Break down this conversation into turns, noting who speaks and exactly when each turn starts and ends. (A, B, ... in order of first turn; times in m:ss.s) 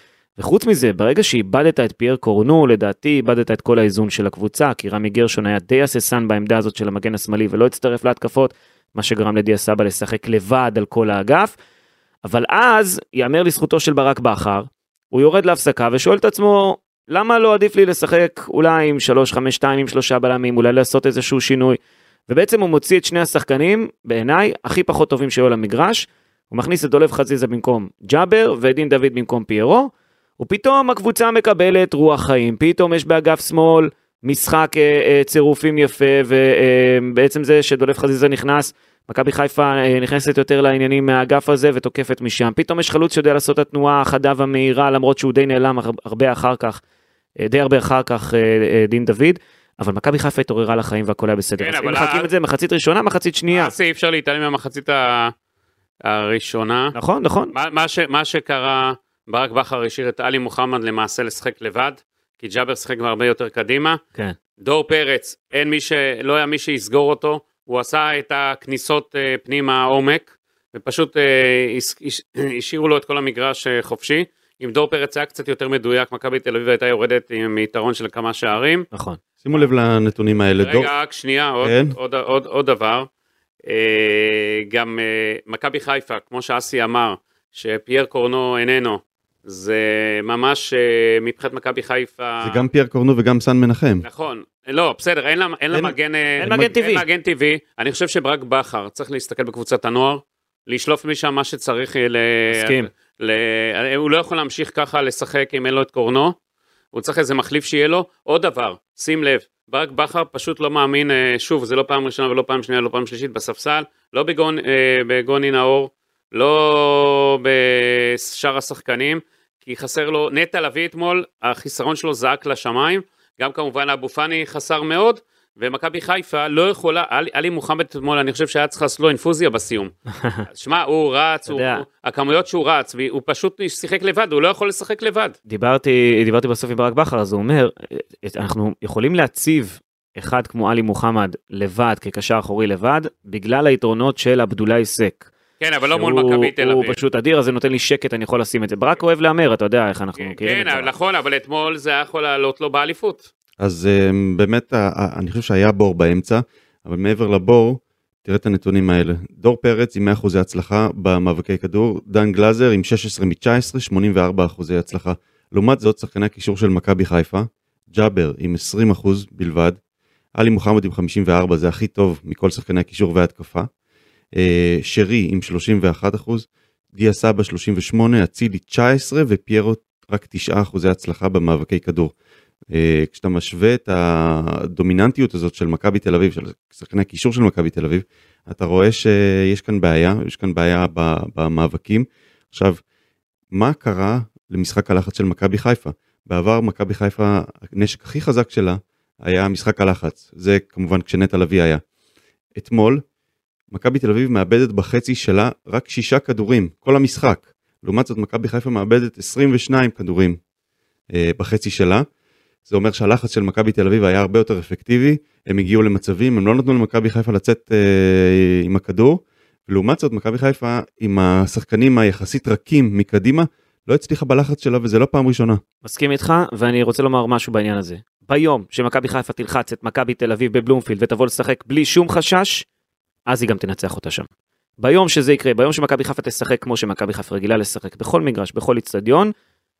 0:00.4-0:11.5 A
0:12.2-0:46.8 A
0:47.4-0:53.7 A
0:51.6-0:52.3 B
0:53.5-0:55.3 B
0:56.0-0:56.9 B
0:56.9-0:57.5 A
0:57.5-1:04.0 B
1:04.6-1:18.9 B
1:18.9-1:19.2 A
1:19.4-1:20.9 C
1:20.6-1:23.1 B
1:21.6-1:22.0 C
1:23.7-1:32.6 B
1:32.4-1:34.0 C
1:34.0-1:46.4 B
1:35.7-1:36.7 C
1:36.4-1:37.1 A
1:42.5-1:42.9 A
1:46.9-2:09.9 B
2:10.5-2:15.4 B
2:11.5-2:11.8 A
2:15.5-2:25.3 A
2:25.6-2:27.0 B
2:25.9-2:30.9 A
2:30.2-2:33.3 B
2:33.6-2:49.8 C
2:50.4-2:53.7 C
2:54.4-3:02.1 C
3:02.7-3:12.8 C
3:13.5-3:21.8 C
3:22.6-3:23.0 C
3:23.7-3:30.4 C
3:31.1-3:32.1 C
3:32.7-3:45.6 C
3:45.8-3:52.6 A
3:53.3-3:54.3 A
3:54.8-3:59.3 A